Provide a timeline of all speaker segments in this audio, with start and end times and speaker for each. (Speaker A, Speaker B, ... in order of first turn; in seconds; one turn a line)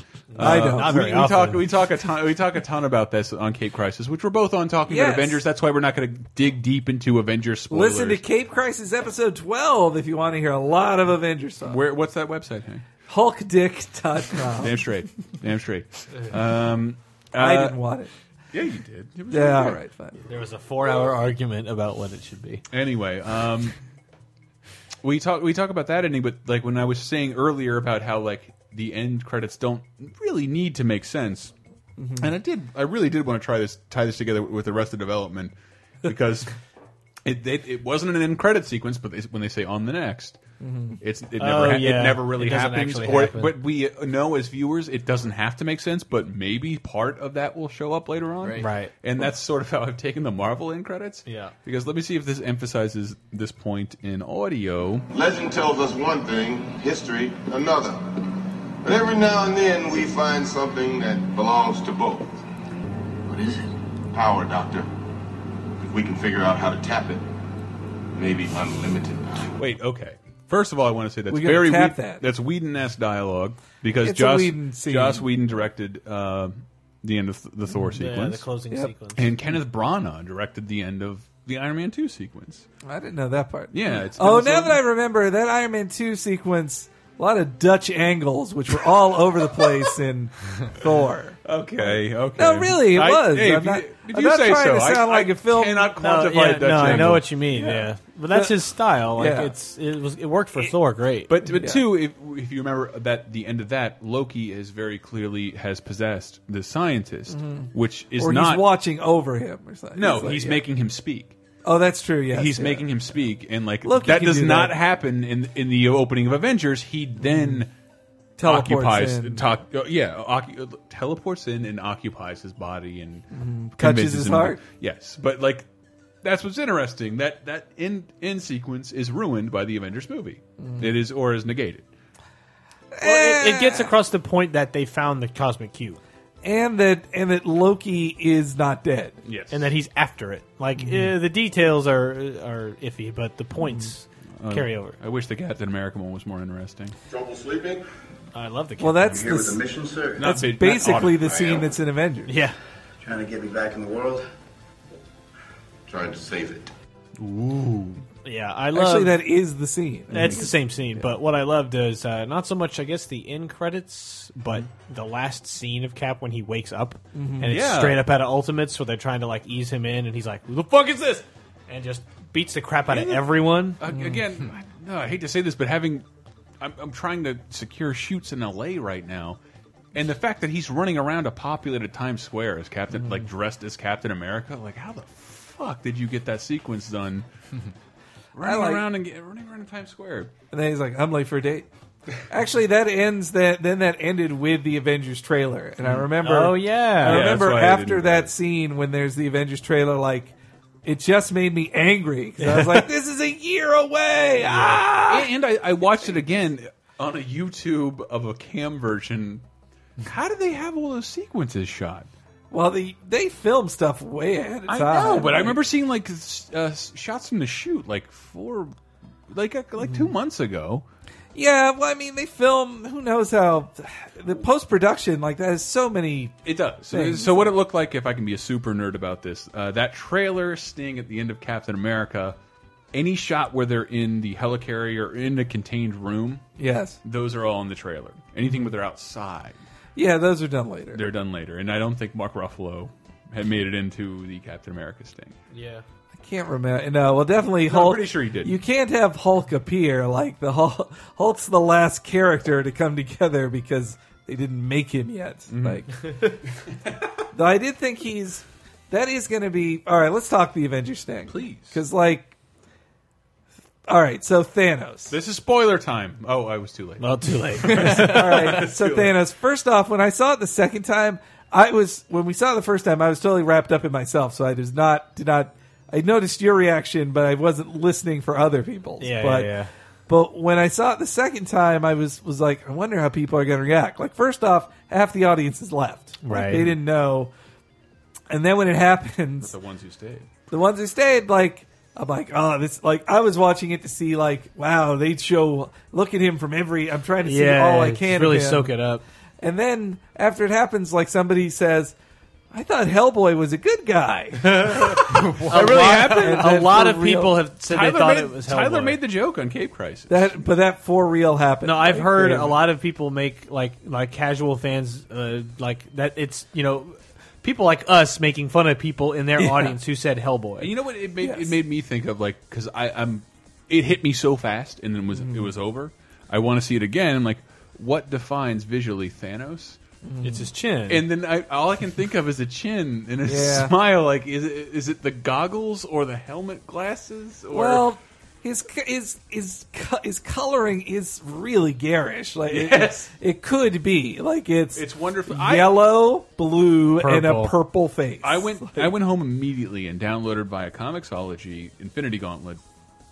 Speaker A: 0.3-1.6
Speaker B: 0.3-8.2
Speaker C: 0.4-1.0
Speaker C: 4.9-5.4
Speaker C: 7.7-11.8
Speaker B: 11.6-12.9
Speaker C: 13.1-14.8
Speaker B: 14.6-17.8
Speaker C: 17.3-18.1
Speaker B: 18.5-19.8
Speaker C: 19.3-20.2
Speaker A: 20.3-22.6
Speaker B: 22.7-23.8
Speaker B: 25.0-31.5
Speaker C: 32.0-32.3
Speaker B: 32.2-35.5
Speaker B: 36.0-36.5
Speaker B: 37.2-40.4
Speaker C: 40.6-41.0
Speaker B: 41.0-55.1
Speaker A: 41.4-43.5
Speaker A: 48.6-48.9
Speaker A: 51.2-51.5
Speaker D: 55.1-58.2
Speaker D: 58.8-62.3
Speaker D: 63.3-64.9
Speaker D: 65.8-67.2
Speaker D: 68.1-69.5
Speaker B: 69.6-78.5
Speaker C: 71.3-72.2
Speaker C: 74.0-75.3
Speaker A: 77.9-79.3
Speaker B: 79.1-82.7
Speaker C: 82.8-91.4
Speaker B: 83.7-84.8
Speaker B: 91.4-97.3
Speaker C: 92.4-98.6
Speaker A: 96.0-101.3
Speaker C: 99.1-99.5
Speaker B: 101.3-108.7
Speaker C: 101.4-101.8
Speaker C: 107.3-110.6
Speaker B: 109.9-111.3
Speaker C: 111.6-112.9
Speaker B: 112.3-117.7
Speaker C: 113.8-114.8
Speaker C: 117.2-117.6
Speaker C: 118.4-119.5
Speaker B: 118.4-123.2
Speaker C: 123.3-124.6
Speaker B: 123.8-125.7
Speaker B: 126.2-131.9
Speaker C: 132.9-133.9
Speaker A: 133.0-136.0
Speaker C: 136.4-139.2
Speaker B: 139.2-139.7
Speaker A: 139.5-144.9
Speaker C: 140.8-141.1
Speaker C: 143.6-143.9
Speaker B: 144.4-146.9
Speaker D: 147.1-147.8
Speaker A: 148.3-149.3
Speaker C: 148.8-149.6
Speaker D: 149.3-150.1
Speaker B: 150.2-151.3
Speaker C: 150.2-152.3
Speaker D: 151.2-151.7
Speaker A: 152.2-152.5
Speaker D: 153.0-154.2
Speaker D: 155.9-156.7
Speaker B: 157.2-158.0
Speaker A: 158.2-159.1
Speaker C: 158.7-161.1
Speaker A: 160.1-173.8
Speaker C: 167.1-167.5
Speaker B: 167.5-168.0
Speaker B: 172.9-176.0
Speaker C: 173.9-174.2
Speaker B: 176.6-179.4
Speaker B: 179.9-187.3
Speaker B: 188.3-190.3
Speaker C: 188.4-188.8
Speaker C: 190.5-191.7
Speaker C: 192.3-200.3
Speaker A: 196.2-197.3
Speaker B: 197.0-198.3
Speaker C: 200.8-205.3
Speaker A: 202.4-202.9
Speaker A: 204.4-204.8
Speaker B: 204.9-209.4
Speaker B: 210.0-212.1
Speaker C: 212.5-215.6
Speaker B: 214.7-218.7
Speaker B: 219.3-220.8
Speaker C: 219.8-220.1
Speaker C: 221.3-227.5
Speaker B: 226.4-232.3
Speaker B: 232.9-236.5
Speaker C: 236.6-237.0
Speaker B: 237.0-239.6
Speaker C: 239.9-241.1
Speaker B: 240.9-245.4
Speaker A: 245.5-245.8
Speaker C: 246.1-256.1
Speaker B: 247.7-248.5
Speaker B: 255.5-256.3
Speaker C: 257.3-262.3
Speaker B: 261.3-261.7
Speaker C: 263.9-265.1
Speaker B: 265.1-267.1
Speaker A: 267.0-268.2
Speaker B: 267.6-269.1
Speaker C: 267.7-279.5
Speaker A: 279.0-279.7
Speaker C: 280.1-287.3
Speaker A: 286.2-286.8
Speaker C: 288.3-289.5
Speaker B: 289.4-290.2
Speaker C: 290.5-298.7
Speaker A: 297.2-299.0
Speaker C: 299.4-301.9
Speaker C: 302.5-307.4
Speaker A: 304.4-309.0
Speaker B: 305.4-306.5
Speaker B: 307.7-310.3
Speaker C: 310.1-312.6
Speaker A: 311.6-320.7
Speaker C: 319.4-319.7
Speaker B: 320.6-329.8
Speaker C: 321.2-321.6
Speaker C: 325.1-325.5
Speaker C: 330.0-330.5
Speaker A: 330.2-331.0
Speaker B: 330.9-337.9
Speaker C: 333.2-333.7
Speaker C: 337.5-348.9
Speaker B: 342.5-343.1
Speaker B: 344.7-345.8
Speaker A: 347.0-347.5
Speaker B: 348.2-352.6